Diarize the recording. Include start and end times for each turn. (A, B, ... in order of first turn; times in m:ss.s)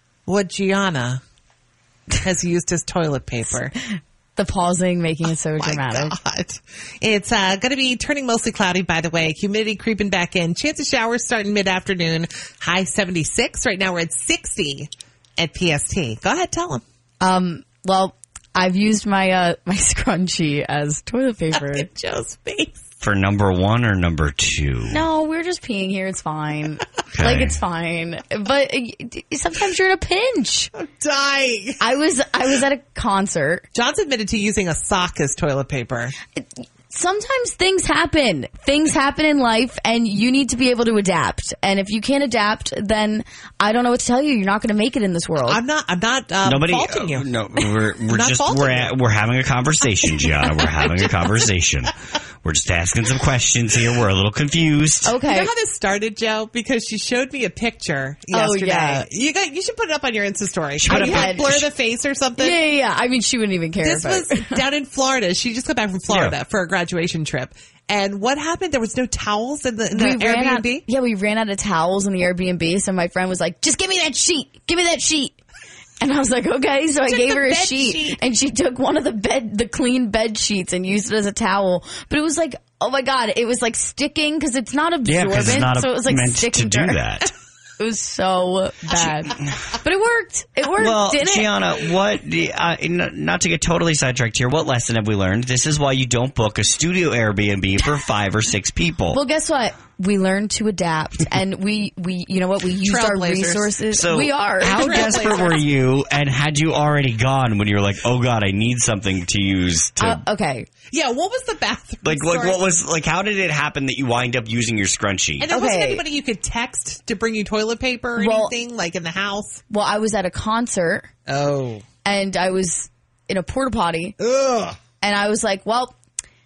0:00.3-0:01.2 A
0:02.2-0:03.8 A
0:04.4-0:06.2 B
0:05.6-0:16.8 A
0:17.2-0:21.9 B
0:21.5-0:22.8 A
0:23.0-0:25.0 C
0:24.9-0:30.7 B
0:27.1-0:27.6 C
0:30.8-0:31.8 A
0:31.8-0:33.6 B
0:33.7-0:36.1 A
0:36.4-0:45.6 B
0:45.4-0:47.3 A
0:46.4-0:55.2 C
0:48.1-0:48.9 A
0:55.1-0:55.5 B
0:55.2-1:02.6 A
0:58.3-0:59.0 B
1:00.8-1:01.7 C
1:00.9-1:01.6 B
1:02.4-1:04.6 B
1:03.8-1:10.9 A
1:06.1-1:06.3 C
1:09.9-1:15.4 B
1:16.0-1:27.3 B
1:17.1-1:18.2 A
1:25.0-1:27.3 C
1:27.8-1:31.5 B
1:30.8-1:39.2 C
1:39.1-1:45.4 B
1:42.8-1:43.7 A
1:43.9-1:50.2 C
1:44.6-1:45.6 A
1:50.0-1:50.7 B
1:50.9-1:52.6 A
1:52.0-1:55.5 C
1:55.4-1:59.6 A
1:55.5-1:56.0 B
1:58.2-1:58.5 B
1:59.7-2:01.1 B
2:01.3-2:01.8 A
2:02.0-2:04.2 B
2:04.2-2:04.8 A
2:05.0-2:06.0 B